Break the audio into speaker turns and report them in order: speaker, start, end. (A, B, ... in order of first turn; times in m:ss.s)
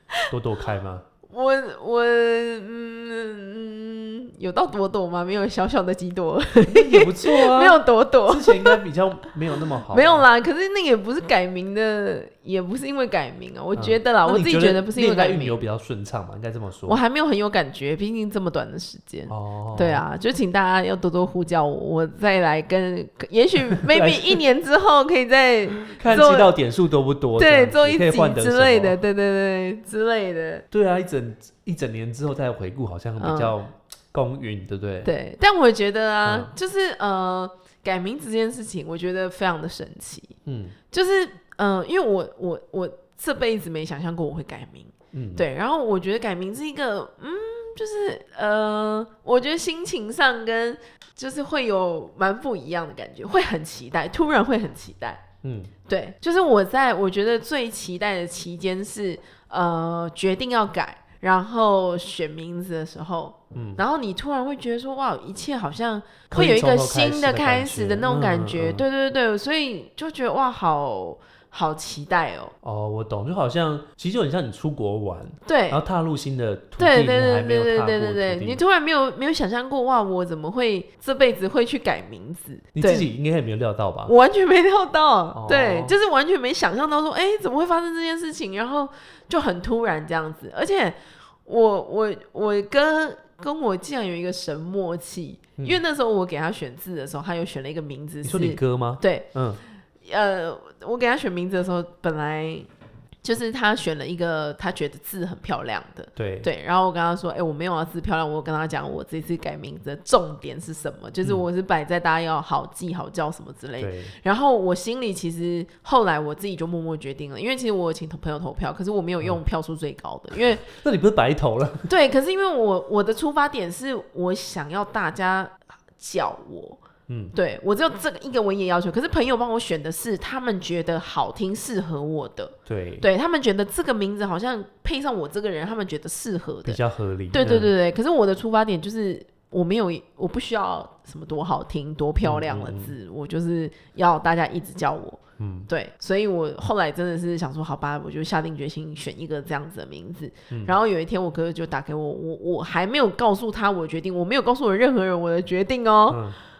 0:00.3-0:01.0 A
0:01.3-0:08.8 B
0:06.7-0:10.2 A
0:09.9-0:15.6 B
0:13.8-0:17.0 A
0:16.9-0:26.6 B
0:19.3-0:20.0 A
0:23.8-0:24.4 A
0:26.0-0:29.0 A
0:27.4-0:30.6 B
0:30.7-0:35.1 A
0:33.2-0:33.6 B
0:35.0-0:40.4 B
0:36.2-0:36.5 A
0:40.5-0:40.8 A
0:40.9-0:55.2 B
0:45.1-0:45.4 A
0:55.4-0:55.7 A
0:55.9-1:12.5 B
1:03.5-1:03.8 A
1:06.3-1:08.8 A
1:12.6-1:18.6 A
1:15.5-1:15.8 B
1:16.8-1:23.1 B
1:22.8-1:24.1 A
1:24.1-1:39.3 B
1:25.3-1:26.0 A
1:38.2-1:39.6 A
1:40.0-1:42.7 B
1:43.2-2:00.7 B
1:46.2-1:46.5 A
1:53.8-1:54.1 A
2:00.6-2:01.9 A
2:01.9-2:06.8 B
2:07.1-2:07.3 A
2:07.3-2:16.8 B
2:12.7-2:13.1 A
2:16.6-2:17.7 A
2:17.3-2:36.2 B
2:22.2-2:22.9 A
2:25.4-2:25.7 A
2:36.1-2:36.4 A